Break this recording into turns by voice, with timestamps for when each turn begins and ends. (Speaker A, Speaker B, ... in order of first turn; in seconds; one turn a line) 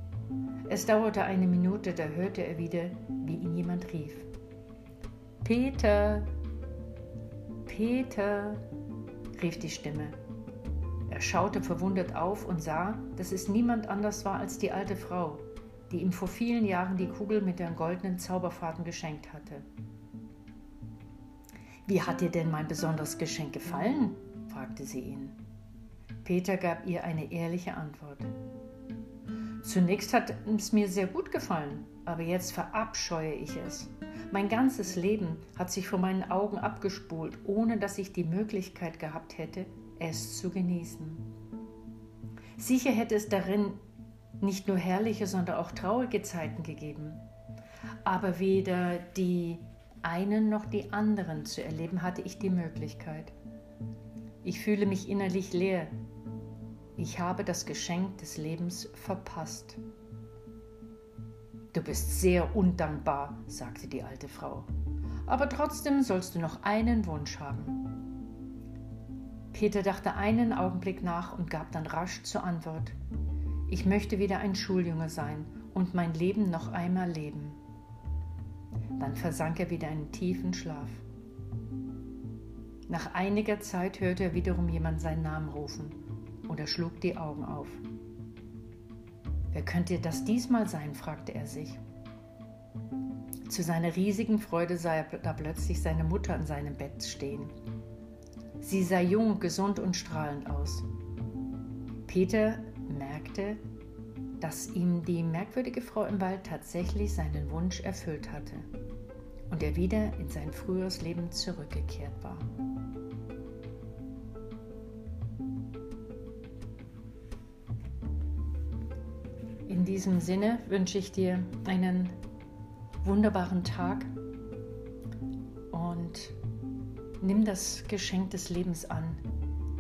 Speaker A: 0.7-4.3
Speaker A: 5.4-6.3
Speaker A: 7.7-8.7
Speaker A: 9.3-10.2
Speaker A: 11.1-19.6
Speaker A: 21.9-25.4
Speaker A: 26.2-28.3
Speaker A: 29.6-41.3
Speaker A: 42.6-43.8
Speaker A: 44.4-47.2
Speaker A: 48.0-53.3
Speaker A: 54.4-55.9
Speaker A: 57.0-59.8
Speaker A: 61.7-64.7
Speaker A: 65.2-67.8
Speaker A: 69.5-73.0
Speaker A: 73.7-77.6
Speaker A: 79.0-81.0
Speaker A: 82.9-87.8
Speaker A: 89.5-91.8
Speaker A: 93.5-97.5
Speaker A: 98.6-100.9
Speaker A: 102.0-103.6
Speaker A: 104.4-108.7
Speaker A: 109.5-112.5
Speaker A: 119.7-122.2
Speaker A: 123.0-124.1
Speaker A: 125.7-126.3
Speaker A: 127.2-129.2